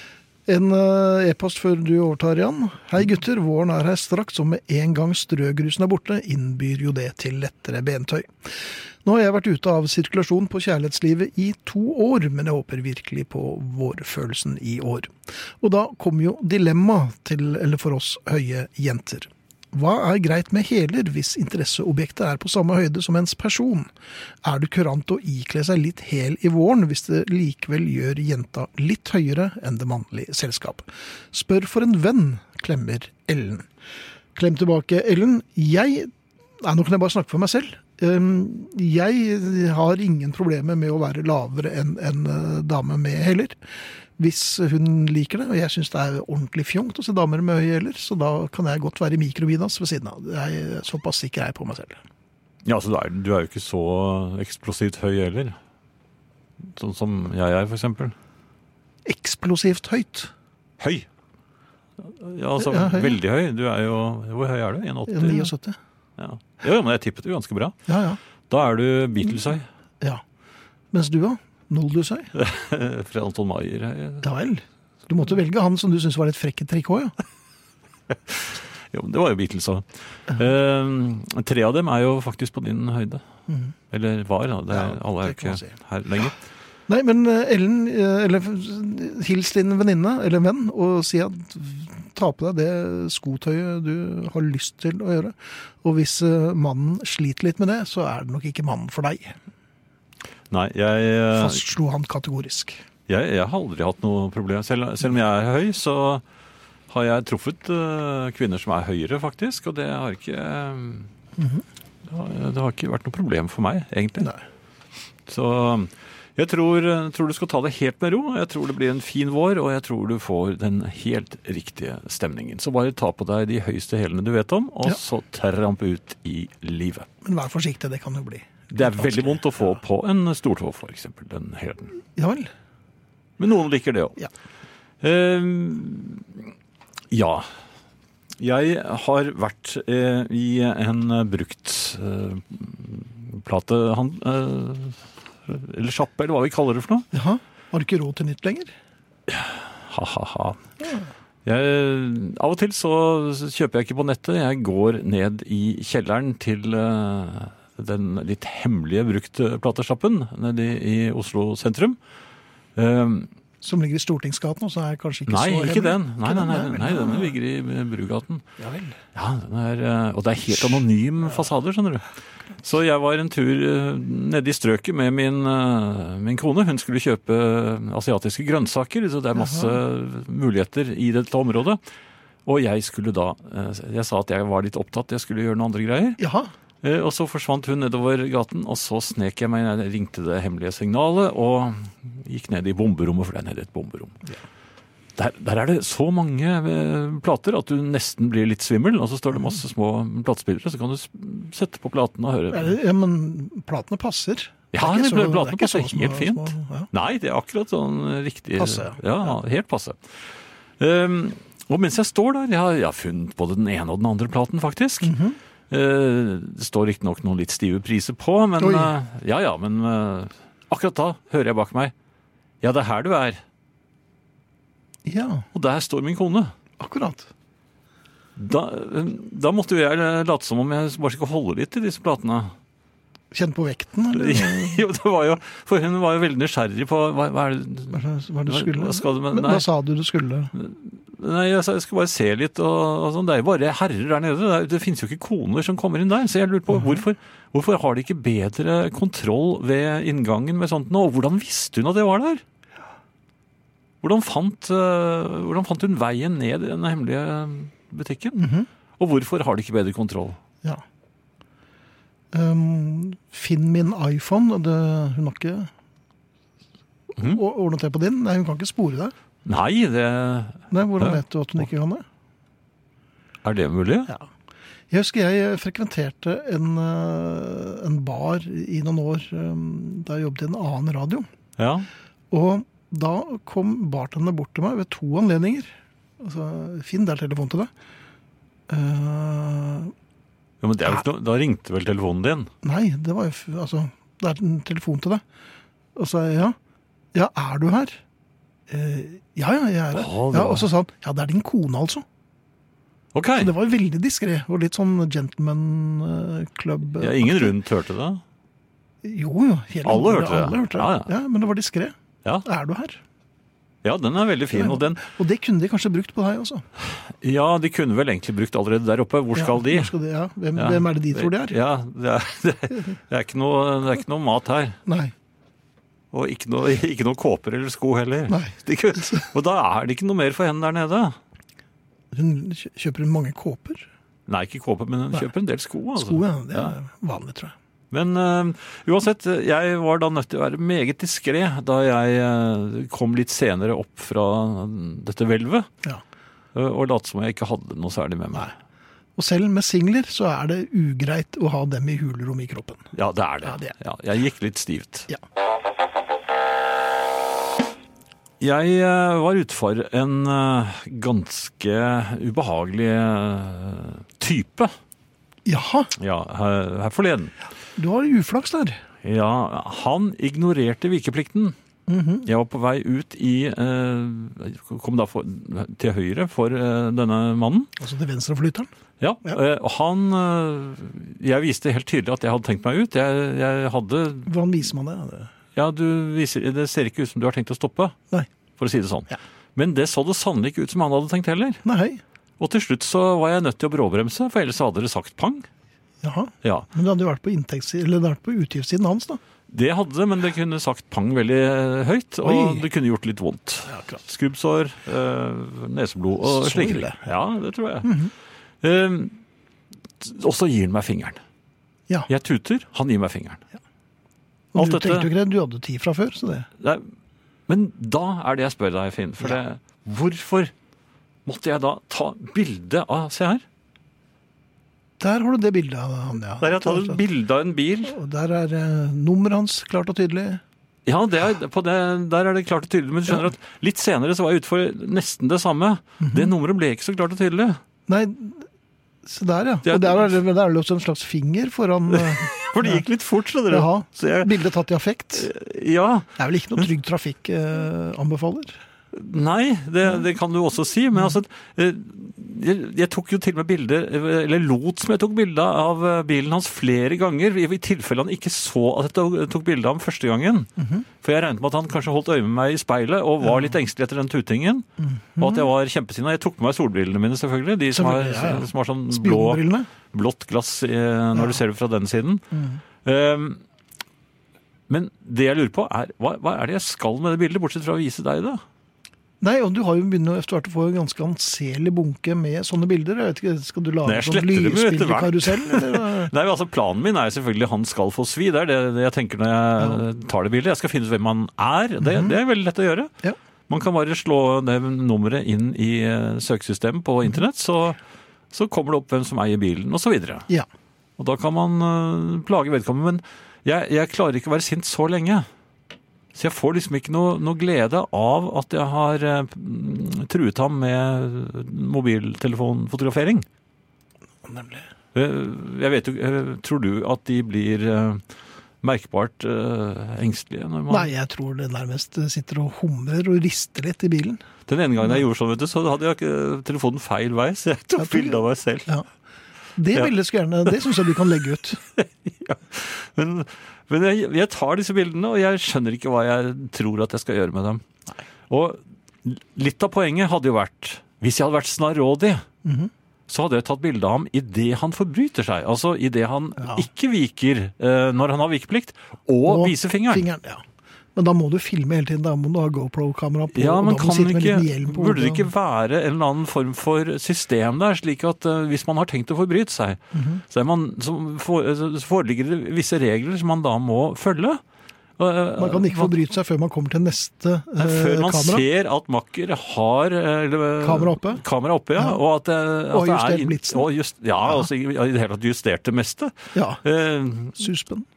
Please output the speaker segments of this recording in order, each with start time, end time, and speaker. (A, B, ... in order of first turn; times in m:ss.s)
0:00.5-0:23.9 A
0:24.4-0:33.7 A
0:34.4-0:43.6 A
0:44.2-0:52.0 A
0:52.6-0:55.6 B
0:56.6-0:58.2 B
0:59.1-1:00.3 A
1:00.8-1:01.1 B
1:02.0-1:05.5 B
1:02.6-1:03.2 A
1:05.1-1:05.8 A
1:06.2-1:07.8 B
1:07.9-1:08.2 A
1:08.5-1:09.7 B
1:10.9-1:12.3 A
1:12.4-1:14.3 B
1:14.2-1:17.1 A
1:18.3-1:23.2 B
1:23.9-1:26.4 B
1:24.7-1:25.7 A
1:26.9-1:39.4 A
1:40.5-1:41.6 B
1:41.3-1:42.8 A
1:43.1-1:46.2 B
1:46.9-1:51.1 B
1:51.4-1:51.6 A
1:52.1-1:54.3 B
1:55.3-2:07.1 B
2:07.2-2:09.4 A
2:08.7-2:12.0 B
2:12.2-2:12.5 A
2:13.4-2:14.3 B
2:15.0-2:16.5 B
2:17.1-2:17.5 B
2:18.4-2:27.1 B
2:27.1-2:28.7 A
2:29.3-2:30.6 B
2:31.4-2:42.0 B
2:42.8-2:43.3 B
2:43.6-2:47.4 A
2:45.3-2:48.4 B
2:48.6-2:49.0 A
2:49.2-2:52.1 B
2:52.6-3:01.8 B
2:59.4-2:59.8 A
3:02.5-3:06.2 B
3:06.2-3:06.5 A
3:06.8-3:14.2 B
3:15.2-3:22.8 B
3:22.5-3:26.9 A
3:24.7-3:30.0 B
3:28.6-3:29.0 A
3:30.8-3:35.1 B
3:35.0-3:35.4 A
3:35.7-3:41.9 B
3:38.6-3:38.9 A
3:42.6-3:43.4 B
3:45.1-3:45.5 A
3:45.5-3:46.5 B
3:46.8-3:47.3 A
3:48.4-3:52.5 B
3:53.3-3:54.8 A
3:54.1-3:59.7 B
3:57.9-4:00.5 A
4:00.6-4:12.4 B
4:14.0-4:18.4 B
4:18.3-4:18.7 A
4:19.0-4:20.4 B
4:22.3-4:25.7 A
4:27.2-4:29.1 A
4:29.4-4:31.2 B
4:30.7-4:32.0 A
4:33.4-4:34.1 B
4:34.9-4:41.3 A
4:41.6-4:41.9 B
4:42.3-4:47.7 A
4:48.7-4:49.9 A
4:50.6-4:52.5 B
4:52.6-4:55.2 A
4:56.0-4:56.6 A
4:57.1-4:58.0 A
4:58.7-5:02.0 A
4:59.9-5:00.7 B
5:03.1-5:03.5 B
5:03.4-5:07.6 A
5:07.0-5:08.2 B
5:09.0-5:13.0 A
5:09.8-5:11.1 B
5:13.8-5:15.0 B
5:14.5-5:16.7 A
5:17.2-5:19.9 B
5:19.4-5:21.6 A
5:20.6-5:24.8 B
5:24.9-5:25.1 A
5:26.1-5:31.2 B
5:28.3-5:29.2 A
5:32.1-5:33.9 A
5:34.3-5:36.7 B
5:36.0-5:37.5 A
5:37.9-5:45.7 B
5:46.6-5:48.5 B
5:49.2-5:52.9 A
5:52.9-5:55.1 B
5:53.4-5:53.7 A
5:58.4-6:04.7 B
6:05.5-6:05.9 A
6:06.0-6:07.3 B
6:07.8-6:08.8 A
6:09.0-6:11.6 B
6:11.9-6:12.3 A
6:12.3-6:17.7 B
6:17.8-6:18.7 A
6:19.0-6:24.3 B
6:24.3-6:25.3 A
6:25.6-6:28.0 B
6:28.6-6:31.6 B
6:31.6-6:32.0 A
6:32.4-6:35.5 B
6:36.0-6:39.2 A
6:39.5-6:48.0 B
6:42.2-6:42.7 A
6:43.7-6:44.0 A
6:46.2-6:47.1 A
6:47.8-6:48.1 A
6:48.6-6:49.2 B
6:50.0-6:51.2 B
6:52.1-6:53.4 B
6:54.5-6:56.5 A
6:54.6-6:55.1 B
6:56.6-6:56.9 B
6:57.5-7:00.5 B
7:01.3-7:03.4 B
7:05.0-7:07.0 A
7:06.4-7:08.0 B
7:07.8-7:10.4 A
7:10.9-7:17.6 B
7:16.0-7:16.3 A
7:17.9-7:18.5 A
7:19.0-7:22.8 A
7:19.7-7:20.1 B
7:21.9-7:24.3 B
7:23.5-7:25.3 A
7:25.2-7:26.6 B
7:26.2-7:28.6 A
7:28.9-7:40.5 B
7:41.0-7:44.7 B
7:43.2-7:43.5 A
7:44.8-7:45.5 A
7:45.2-7:52.2 B
7:47.7-7:49.7 A
7:51.1-7:51.4 A
7:52.3-7:52.6 A
7:52.8-7:53.4 B
7:54.7-7:58.4 B
7:59.2-8:06.1 A
8:03.8-8:12.9 B
8:11.8-8:12.2 A
8:13.5-8:17.8 B
8:18.3-8:20.3 B
8:21.0-8:25.3 B
8:26.1-8:33.2 B
8:34.2-8:34.7 A
8:34.9-8:38.0 B
8:38.6-8:40.9 B
8:40.7-8:44.2 A
8:44.5-8:48.7 B
8:47.8-8:48.9 A
8:49.6-8:51.6 A
8:51.8-8:57.6 B
8:58.3-9:02.2 B
9:02.4-9:02.7 A
9:03.1-9:10.1 B
9:06.4-9:06.7 A
9:09.3-9:10.4 A
9:11.0-9:15.3 A
9:13.3-9:19.8 B
9:19.9-9:20.2 A
9:20.3-9:24.4 B
9:25.0-9:26.0 B
9:25.4-9:28.4 A
9:27.6-9:37.4 B
9:30.6-9:31.2 A
9:32.7-9:33.7 A
9:36.3-9:36.6 A
9:37.4-9:37.9 A